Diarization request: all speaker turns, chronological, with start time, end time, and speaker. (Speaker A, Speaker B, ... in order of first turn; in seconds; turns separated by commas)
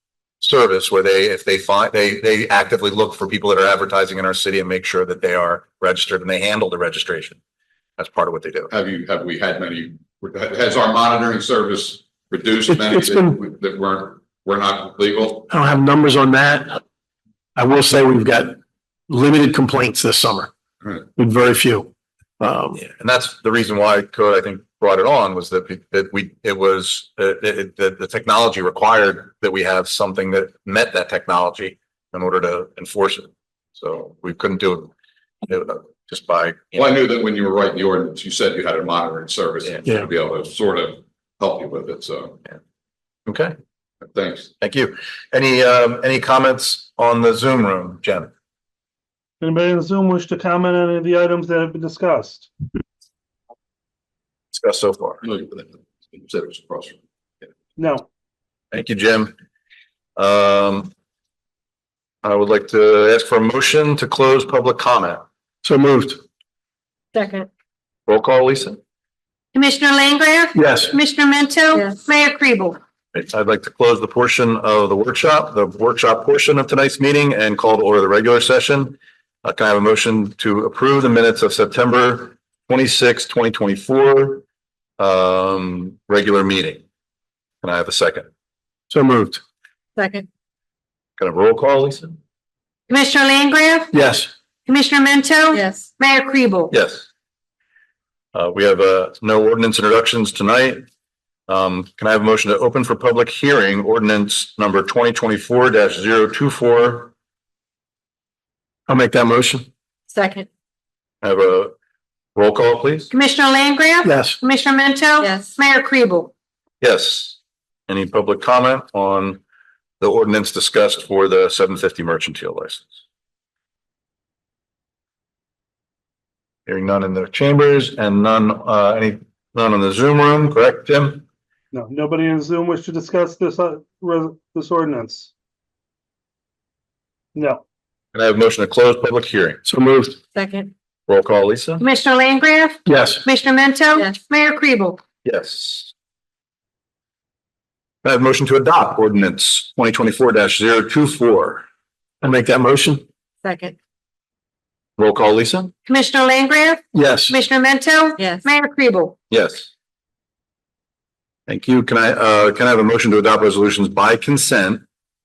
Speaker A: 0.4-7.4, Speaker A: 8.0-8.7, Speaker B: 8.7-15.5, Speaker C: 12.7-13.4, Speaker C: 15.5-16.8, Speaker C: 17.6-18.6, Speaker C: 19.1-20.5, Speaker C: 21.1-22.8, Speaker A: 22.8-34.9, Speaker A: 35.4-36.9, Speaker B: 36.7-42.4, Speaker A: 43.2-43.5, Speaker B: 44.0-44.5, Speaker A: 44.6-48.3, Speaker D: 49.4-52.5, Speaker A: 54.5-55.2, Speaker B: 55.2-57.0, Speaker D: 57.8-58.0, Speaker A: 58.7-59.3, Speaker A: 60.1-60.9, Speaker A: 62.2-65.2, Speaker C: 65.6-66.2, Speaker E: 67.1-67.5, Speaker A: 68.1-68.8, Speaker F: 69.5-72.8, Speaker C: 70.5-70.9, Speaker E: 71.7-72.0, Speaker A: 73.1-84.4, Speaker A: 85.0-86.8, Speaker A: 87.6-88.3, Speaker C: 88.9-89.4, Speaker E: 90.0-90.3, Speaker A: 91.2-92.2, Speaker F: 92.9-93.9, Speaker C: 93.9-94.3, Speaker F: 94.7-96.7, Speaker E: 95.5-95.9, Speaker A: 96.7-97.0, Speaker A: 98.3-100.8, Speaker A: 101.5-107.1, Speaker C: 108.9-109.7, Speaker E: 110.1-110.5, Speaker A: 111.2-111.7, Speaker A: 112.3-113.1, Speaker F: 113.1-116.3, Speaker C: 114.0-114.4, Speaker E: 115.2-115.5, Speaker A: 116.8-119.4, Speaker A: 120.0-122.9, Speaker A: 126.7-131.2, Speaker D: 131.7-135.3, Speaker D: 137.3-137.6, Speaker A: 138.1-139.6, Speaker C: 139.6-140.2, Speaker E: 140.3-140.7, Speaker A: 141.1-141.8, Speaker F: 141.8-145.0, Speaker C: 142.8-143.2, Speaker A: 145.2-145.9, Speaker A: 148.0-151.6, Speaker C: 152.2-153.0, Speaker E: 153.4-153.7, Speaker A: 155.0-155.7, Speaker F: 155.8-159.1, Speaker C: 156.9-157.3, Speaker E: 158.2-158.5, Speaker A: 159.3-159.7, Speaker A: 161.5-164.8